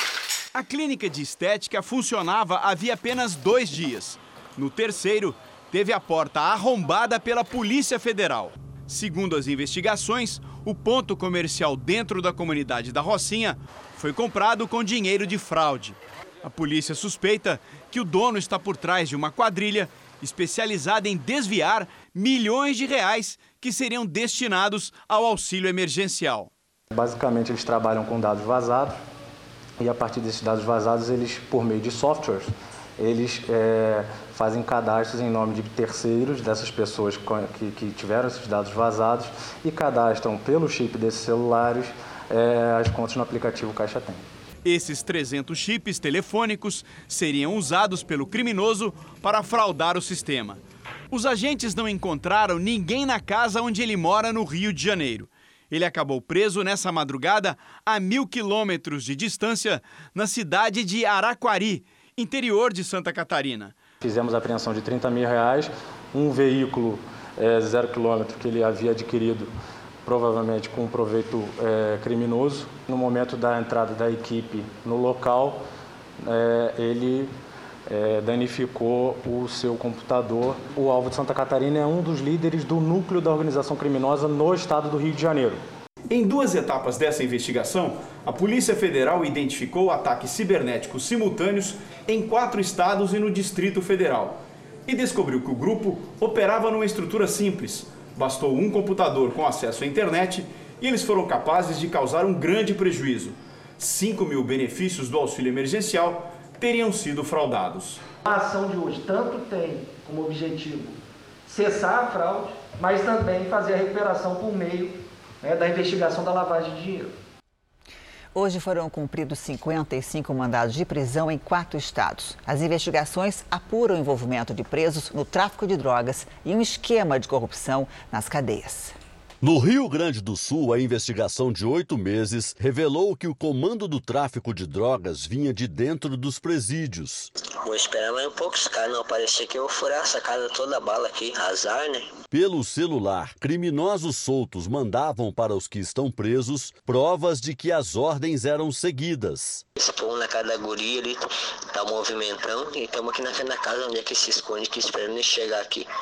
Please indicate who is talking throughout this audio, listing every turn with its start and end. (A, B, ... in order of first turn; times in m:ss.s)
0:00.5-0:26.5 A
0:26.9-0:29.0 B
0:29.8-0:44.2 B
0:44.6-1:03.7 A
1:04.0-1:09.5 B
1:10.0-1:15.6 B
1:16.2-1:17.3 B
1:17.9-1:25.6 B
1:26.1-1:48.0 A
1:48.2-1:57.1 C
1:58.3-2:08.9 D
2:09.4-2:17.3 E
2:17.6-2:22.1 F
2:22.3-2:29.6 E
2:29.8-2:35.9 F